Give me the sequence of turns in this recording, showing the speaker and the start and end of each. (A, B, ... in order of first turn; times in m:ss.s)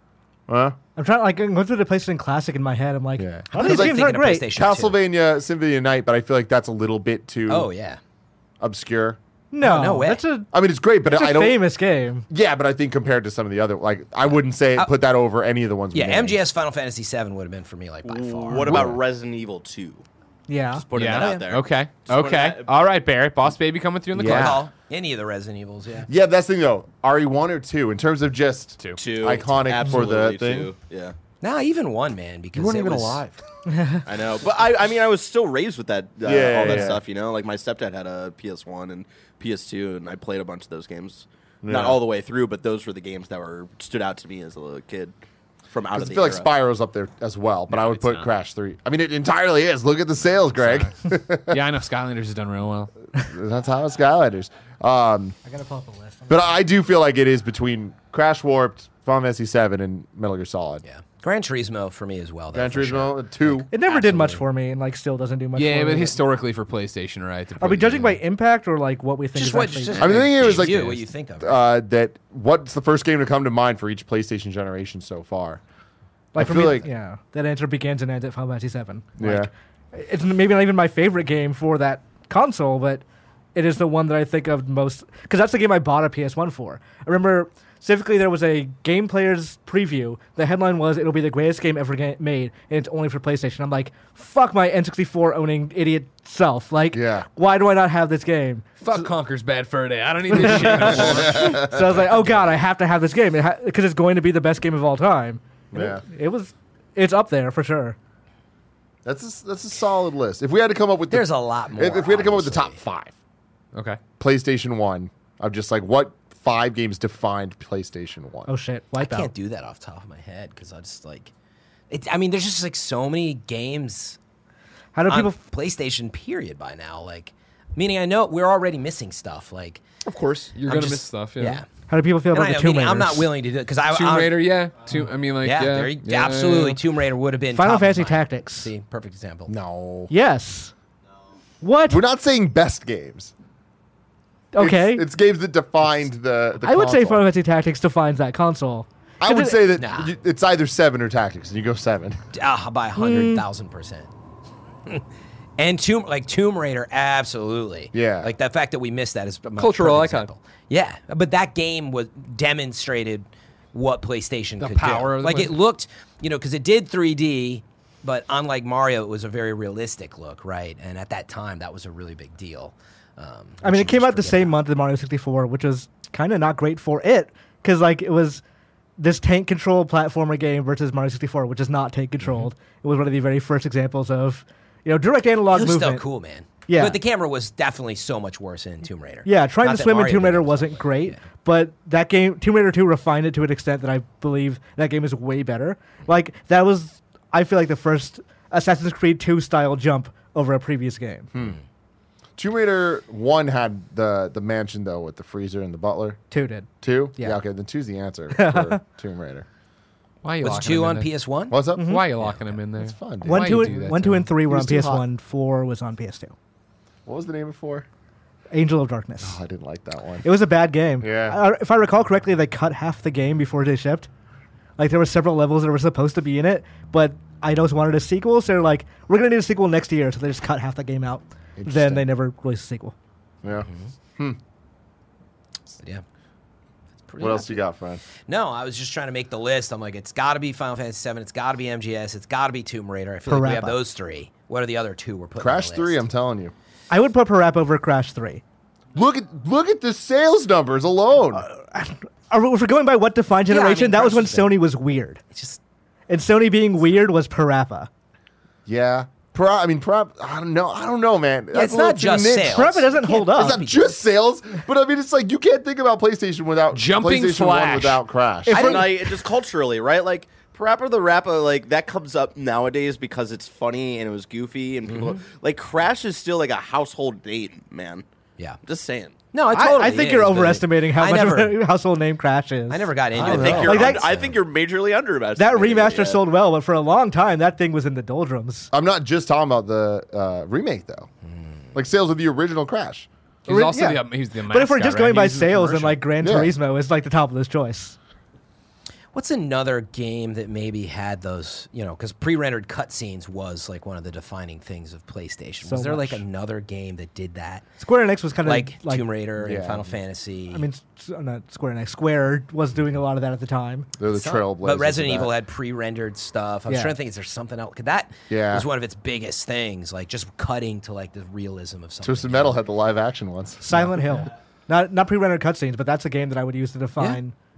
0:00.5-0:00.8 A
0:01.0-0:04.5 B
0:03.2-0:07.7 A
0:03.5-0:05.0 C
0:07.5-0:08.0 C
0:08.6-0:09.2 A
0:09.5-0:10.5 B
0:09.6-0:10.2 C
0:10.5-0:11.6 A
0:11.1-0:12.2 B
0:12.3-0:16.4 A
0:15.9-0:18.9 C
0:18.0-0:20.0 D
0:18.5-0:19.0 A
0:20.5-0:20.8 B
0:20.7-0:22.7 D
0:20.9-0:24.7 E
0:21.1-0:21.4 C
0:24.1-0:24.6 A
0:24.2-0:26.1 C
0:26.1-0:30.7 A
0:29.0-0:31.1 D
0:31.4-0:33.2 C
0:32.5-0:33.4 A
0:33.8-0:34.0 B
0:34.1-0:45.2 D
0:36.2-0:37.0 A
0:41.6-0:42.0 A
0:45.7-0:46.5 D
0:45.9-0:51.6 A
0:47.7-0:48.2 E
0:50.6-0:50.9 E
0:51.5-0:52.9 E
0:53.1-0:55.4 A
0:55.5-0:56.5 B
0:56.3-1:00.8 A
1:00.8-1:04.4 C
1:02.5-1:03.7 A
1:03.7-1:06.2 B
1:05.6-1:08.2 E
1:07.6-1:10.2 B
1:09.4-1:11.6 C
1:10.0-1:15.6 A
1:10.6-1:10.9 E
1:16.4-1:16.9 A
1:16.4-1:23.0 B
1:19.2-1:19.5 A
1:23.6-1:39.1 B
1:36.9-1:37.3 A
1:38.8-1:41.6 E
1:40.3-1:48.0 B
1:40.8-1:42.0 A
1:45.7-1:46.0 A
1:49.0-1:53.1 A
1:51.1-1:52.8 C
1:53.7-1:54.0 E
1:54.2-1:58.5 A
1:58.5-1:59.3 B
1:59.0-2:01.3 C
2:01.9-2:04.2 C
2:05.0-2:05.4 B
2:05.1-2:09.8 C
2:10.1-2:11.6 E
2:10.7-2:11.7 C
2:11.9-2:13.3 B
2:12.3-2:14.4 C
2:13.9-2:16.8 E
2:15.4-2:19.5 C
2:17.5-2:18.7 B
2:19.5-2:20.1 A
2:20.1-2:20.7 B
2:21.6-2:22.0 B
2:21.9-2:23.3 A
2:24.5-2:25.1 B
2:24.6-2:27.2 A
2:26.6-2:29.6 B
2:29.2-2:32.2 A
2:29.8-2:30.1 C
2:32.3-2:34.1 C
2:33.0-2:33.4 B
2:35.6-2:54.6 C
2:37.9-2:38.3 A
2:39.6-2:40.3 E
2:44.6-2:45.6 E
2:53.6-2:58.4 B
2:59.0-3:06.0 B
3:05.5-3:11.2 C
3:06.7-3:07.0 B
3:09.2-3:21.3 B
3:21.3-3:21.6 A
3:22.4-3:26.2 A
3:26.3-3:27.4 B
3:26.8-3:29.5 A
3:28.3-3:28.8 B
3:30.2-3:31.1 E
3:30.4-3:31.6 C
3:31.5-3:32.1 A
3:31.8-3:32.0 B
3:31.8-3:34.3 E
3:32.8-3:35.1 A
3:33.2-3:36.3 B
3:37.1-3:37.9 A
3:38.5-3:39.4 B
3:39.2-3:40.3 A
3:40.2-3:44.1 B
3:41.0-3:41.4 A
3:44.8-3:52.9 B
3:51.6-3:52.1 A
3:53.4-3:54.4 A
3:53.6-3:53.9 C
3:57.0-3:57.6 C
3:57.2-3:58.0 A
3:58.3-4:06.0 C
4:03.3-4:03.8 B
4:05.4-4:06.5 A
4:06.9-4:08.4 B
4:09.0-4:11.4 A
4:11.4-4:15.2 B
4:13.5-4:14.6 C
4:15.3-4:15.6 C
4:16.1-4:17.9 B
4:18.7-4:28.8 A
4:21.5-4:24.0 C
4:22.5-4:23.6 B
4:26.7-4:28.0 E
4:28.5-4:29.1 B
4:28.5-4:28.9 C
4:28.5-4:38.0 D
4:34.9-4:35.2 C
4:38.6-4:39.2 D
4:39.3-4:41.6 C
4:39.5-4:44.1 B
4:42.7-4:44.4 C
4:43.2-4:43.9 A
4:43.2-4:46.2 D
4:45.4-4:48.7 B
4:48.7-4:51.1 A
4:51.7-4:53.1 A
4:53.5-4:56.1 E
4:53.5-4:58.0 B
4:56.2-4:56.6 A
4:59.1-5:07.7 C
5:05.6-5:06.2 B
5:07.8-5:09.1 B
5:08.4-5:10.7 C
5:09.4-5:09.9 A
5:10.5-5:13.9 B
5:14.0-5:15.3 A
5:14.1-5:22.6 C
5:16.7-5:16.9 B
5:18.3-5:18.7 A
5:22.0-5:23.6 A
5:23.6-5:27.4 B